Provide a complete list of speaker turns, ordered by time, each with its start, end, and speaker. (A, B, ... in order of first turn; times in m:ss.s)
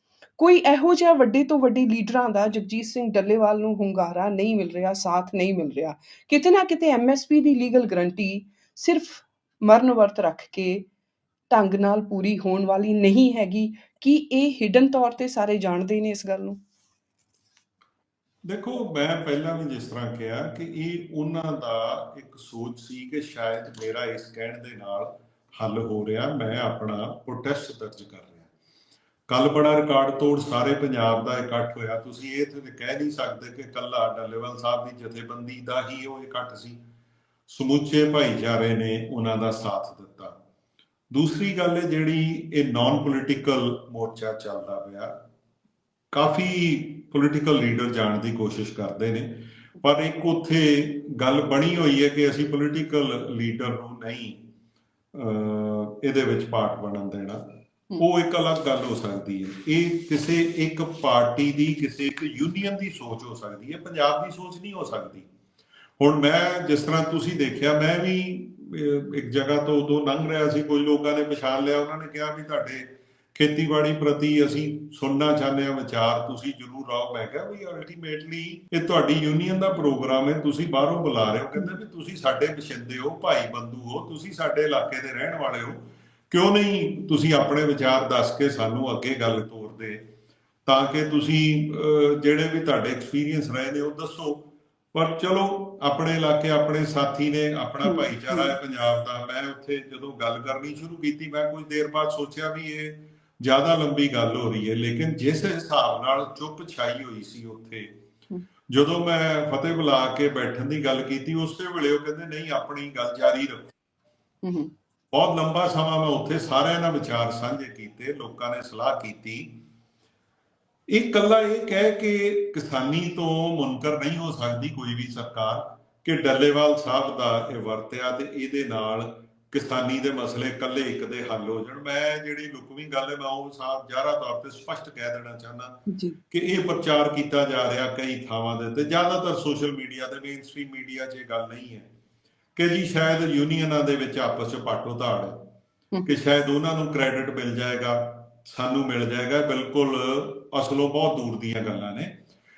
0:00.4-0:10.9 A
0:11.5-0:16.6 A
0:18.4-0:28.5 B
0:29.3-0:36.8 B
0:37.5-0:40.3 B
0:41.1-0:45.1 B
0:46.1-0:54.4 B
0:55.1-0:57.4 B
0:58.0-1:05.2 B
1:06.0-1:30.0 B
1:30.6-1:47.9 B
1:37.8-1:38.5 A
1:48.7-1:53.7 B
1:54.4-1:54.7 A
1:55.1-1:59.6 B
2:00.9-2:15.8 B
2:15.9-2:16.2 A
2:16.3-2:21.8 B
2:22.6-2:25.5 B
2:26.0-2:32.1 B